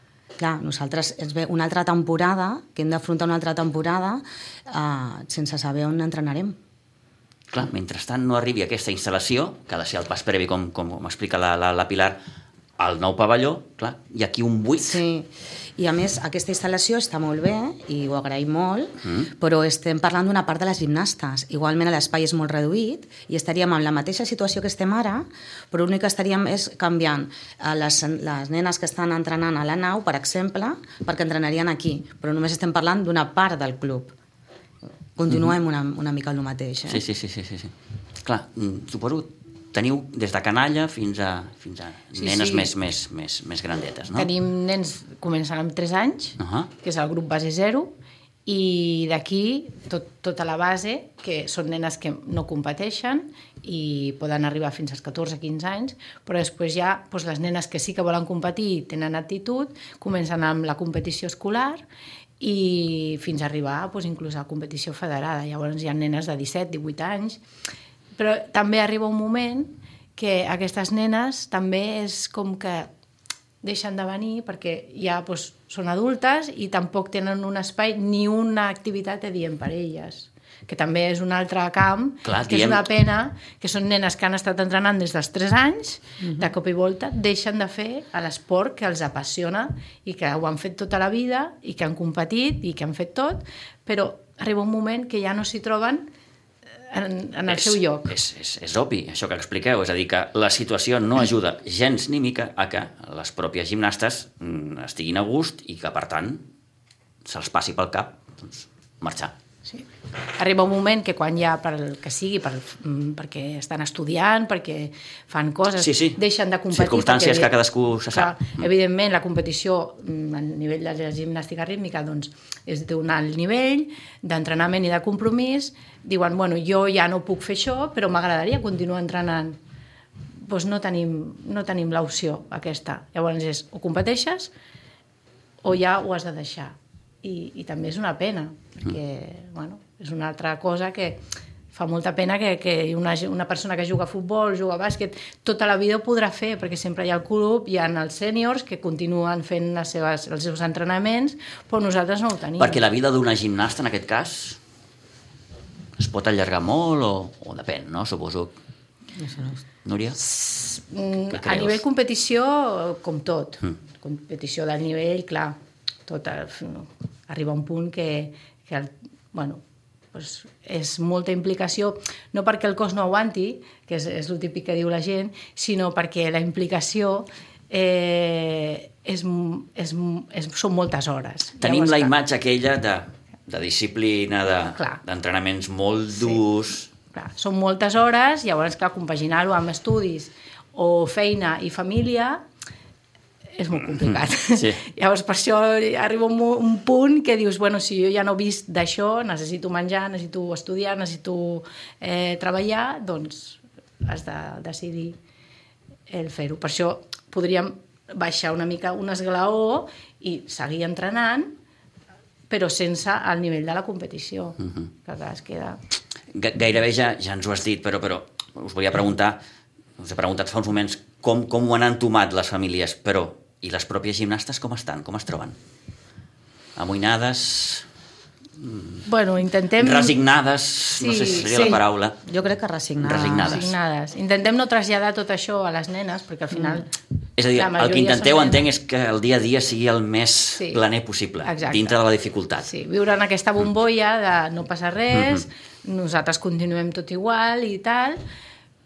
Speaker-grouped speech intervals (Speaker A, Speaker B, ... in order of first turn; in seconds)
Speaker A: 0.4-6.5, 14.8-34.1, 35.2-37.0, 86.2-86.5, 159.2-159.6, 231.5-233.6
Speaker B: 7.5-12.2, 12.8-15.0, 19.0-19.3, 36.9-37.7, 38.2-44.3, 46.4-46.7, 82.2-82.8, 97.5-106.4, 107.2-109.3, 115.8-116.2, 116.7-118.7, 152.6-154.6, 156.0-158.5, 159.8-160.2, 161.3-161.8, 181.6-186.9, 193.8-194.8, 216.3-219.4, 220.0-225.6, 226.8-227.8, 228.6-229.1, 229.8-232.2, 233.0-233.7, 237.4-242.7, 245.1-245.4
Speaker C: 42.1-42.7, 44.1-47.9, 48.5-61.8, 62.4-67.4, 68.2-72.9, 73.6-96.1, 96.9-98.1, 109.7-117.5, 118.1-129.6, 130.4-134.5, 135.6-141.2, 141.7-152.8, 160.2-169.6, 170.1-182.1, 187.1-192.4, 193.6-205.2, 206.1-211.5, 212.5-215.8, 229.1-230.2, 230.9-231.8, 233.4-236.9, 237.5-238.7, 240.5-240.8, 241.4-241.9, 242.6-248.2